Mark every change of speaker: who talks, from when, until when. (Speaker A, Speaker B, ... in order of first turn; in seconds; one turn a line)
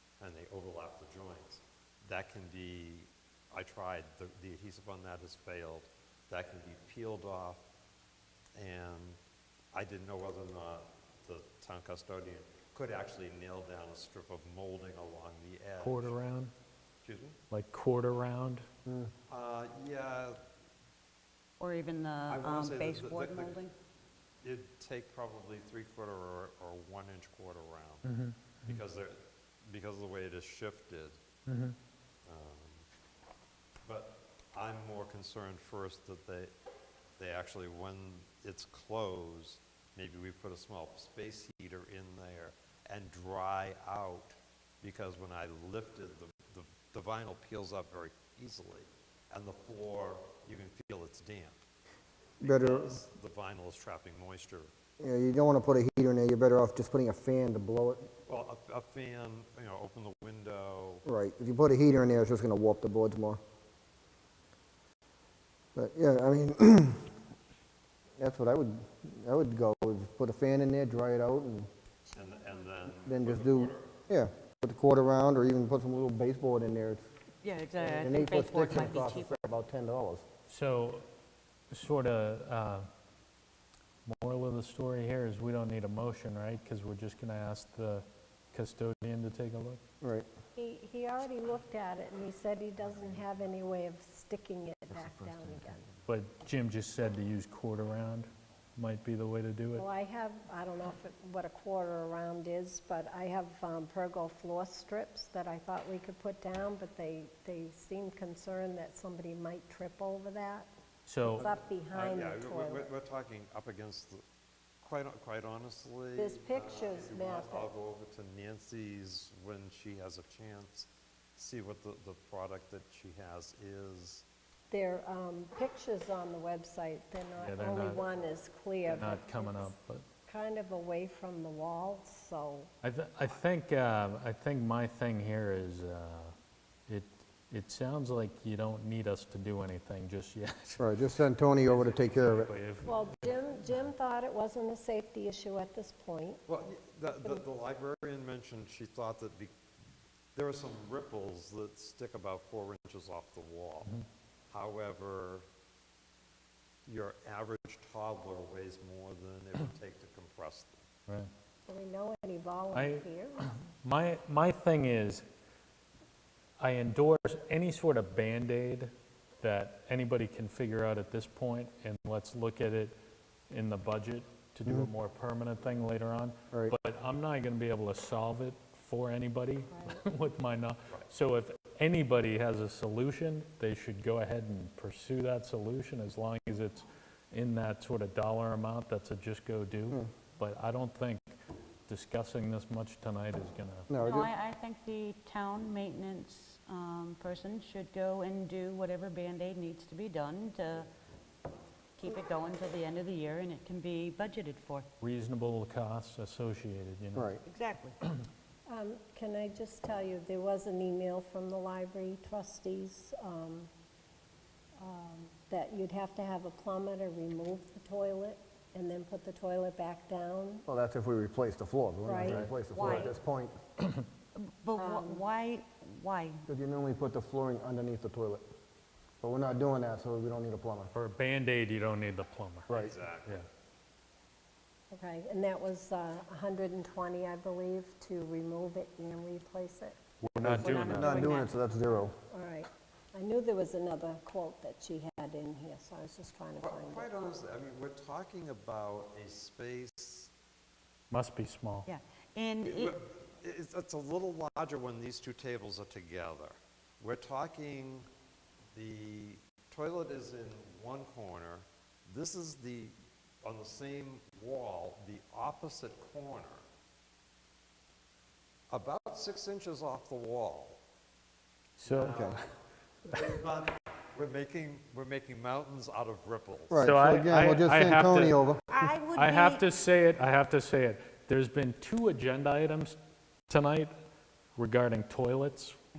Speaker A: 0.2-7.6
Speaker A: 8.6-9.2
Speaker A: 9.7-16.2
Speaker B: 15.8-16.5
Speaker A: 17.0-17.4
Speaker B: 17.5-18.6
Speaker A: 19.3-20.4
Speaker C: 21.6-23.7
Speaker A: 22.3-23.6
Speaker A: 24.4-28.1
Speaker B: 28.0-28.8
Speaker A: 28.6-31.2
Speaker B: 31.5-31.8
Speaker A: 32.2-32.9
Speaker A: 33.9-36.5
Speaker A: 37.2-51.6
Speaker D: 52.4-53.0
Speaker A: 52.4-54.7
Speaker D: 55.0-58.1
Speaker A: 58.2-61.0
Speaker D: 61.0-63.4
Speaker D: 65.7-67.1
Speaker D: 68.2-71.7
Speaker E: 72.1-72.7
Speaker A: 72.1-73.9
Speaker D: 73.0-77.0
Speaker C: 77.4-79.4
Speaker D: 77.8-80.2
Speaker B: 80.5-81.0
Speaker B: 81.7-82.8
Speaker B: 84.0-89.8
Speaker D: 90.0-90.2
Speaker E: 90.5-95.9
Speaker D: 94.9-95.7
Speaker B: 96.1-99.9
Speaker E: 99.8-110.7
Speaker B: 111.1-111.5
Speaker E: 111.2-112.9
Speaker A: 111.9-114.2
Speaker A: 114.8-124.2
Speaker E: 116.2-117.7
Speaker E: 124.7-132.7
Speaker B: 127.4-128.0
Speaker B: 128.9-130.0
Speaker B: 132.8-136.3
Speaker B: 136.9-140.8
Speaker D: 140.8-142.5
Speaker B: 141.6-143.2
Speaker E: 142.8-146.4
Speaker A: 146.5-149.5
Speaker A: 150.3-153.9
Speaker A: 154.5-155.4
Speaker A: 156.8-160.8
Speaker E: 161.7-163.4
Speaker B: 162.7-165.2
Speaker B: 166.6-172.9
Speaker B: 173.5-191.3
Speaker E: 179.7-180.0
Speaker B: 191.9-193.9
Speaker D: 193.9-194.3
Speaker C: 194.0-200.9
Speaker C: 202.0-204.9
Speaker B: 205.0-207.4
Speaker D: 207.1-207.4
Speaker C: 207.4-208.0
Speaker E: 208.7-213.7
Speaker E: 214.8-220.6
Speaker D: 220.7-223.6
Speaker E: 222.0-222.5
Speaker C: 222.6-223.1
Speaker C: 224.3-226.4
Speaker E: 224.8-225.2
Speaker D: 226.5-228.4
Speaker D: 229.2-230.9
Speaker B: 230.9-232.7
Speaker A: 232.7-233.4
Speaker E: 234.9-240.0
Speaker B: 240.2-241.2
Speaker D: 240.4-242.2
Speaker C: 240.6-241.5
Speaker E: 242.3-247.1
Speaker A: 246.6-250.3
Speaker B: 251.1-251.8
Speaker C: 251.9-252.9
Speaker A: 252.6-258.1
Speaker A: 258.7-266.6
Speaker A: 268.7-270.8
Speaker B: 271.8-272.4
Speaker A: 271.9-272.4
Speaker D: 271.9-272.4
Speaker A: 273.2-276.9
Speaker D: 276.7-278.6
Speaker B: 276.8-278.4
Speaker C: 278.7-279.7
Speaker B: 279.1-283.9
Speaker B: 284.6-285.8